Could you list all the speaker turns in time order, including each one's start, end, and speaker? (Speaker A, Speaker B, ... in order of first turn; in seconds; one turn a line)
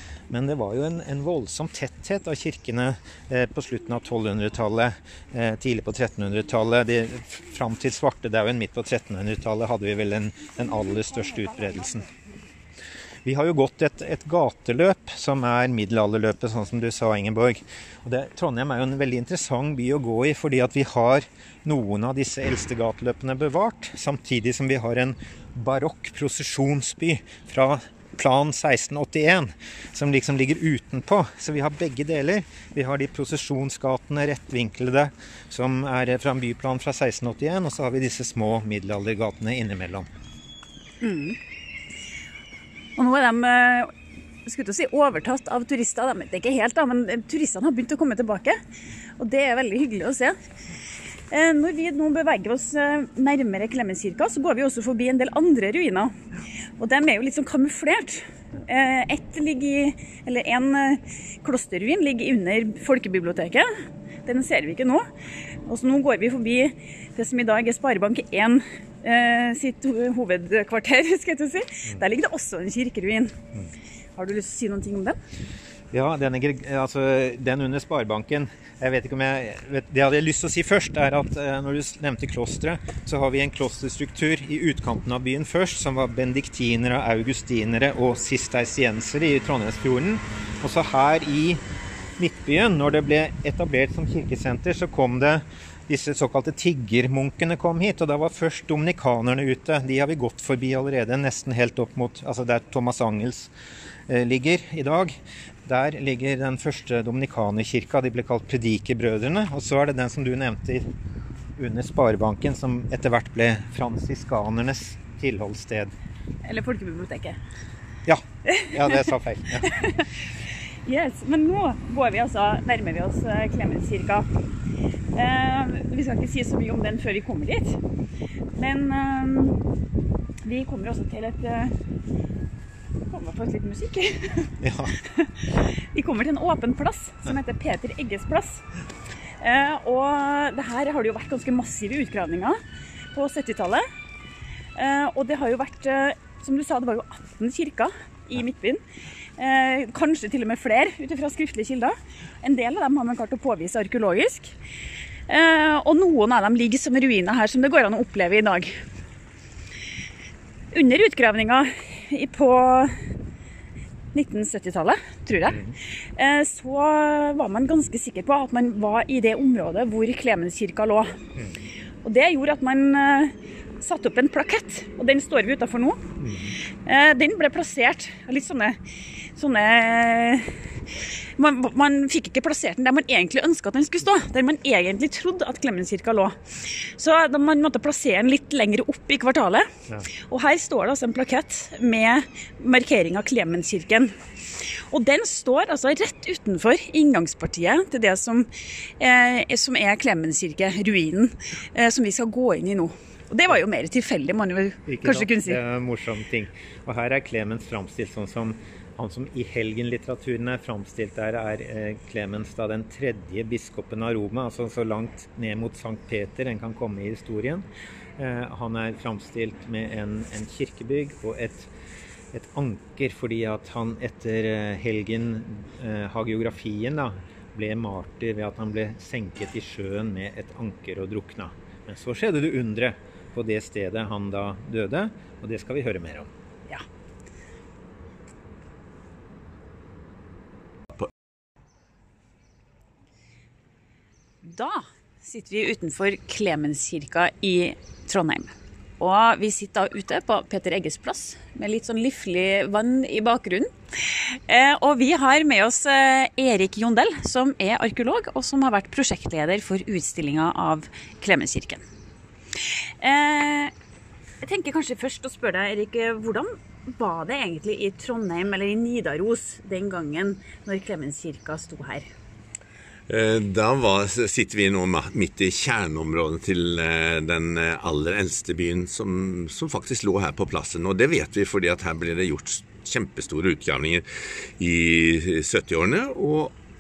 Speaker A: 0.3-12.1
Speaker A: 13.2-40.1
Speaker B: 41.0-41.4
Speaker B: 43.0-43.9
Speaker B: 44.5-48.6
Speaker B: 49.2-50.4
Speaker B: 51.3-56.1
Speaker B: 56.8-63.7
Speaker B: 64.2-65.1
Speaker B: 65.7-73.4
Speaker B: 74.2-75.2
Speaker A: 75.9-91.6
Speaker A: 92.2-103.5
Speaker A: 104.1-110.9
Speaker A: 111.6-115.9
Speaker B: 116.4-117.4
Speaker A: 118.0-119.8
Speaker B: 118.5-119.0
Speaker B: 119.6-120.1
Speaker B: 120.8-124.3
Speaker B: 125.1-127.8
Speaker B: 128.5-129.6
Speaker B: 130.4-131.7
Speaker B: 133.1-138.6
Speaker A: 134.6-135.0
Speaker B: 139.4-142.6
Speaker B: 143.1-143.8
Speaker B: 144.8-148.8
Speaker B: 149.4-154.5
Speaker B: 155.3-158.8
Speaker B: 160.7-163.1
Speaker B: 164.1-165.6
Speaker B: 166.2-171.2
Speaker B: 172.0-176.1
Speaker A: 176.2-176.6
Speaker B: 176.8-178.8
Speaker B: 179.4-205.6
Speaker A: 204.9-217.6
Speaker A: 218.2-221.7
Speaker A: 222.3-236.3
Speaker B: 244.4-261.8
Speaker B: 262.6-263.7
Speaker B: 264.4-272.1
Speaker C: 273.1-286.5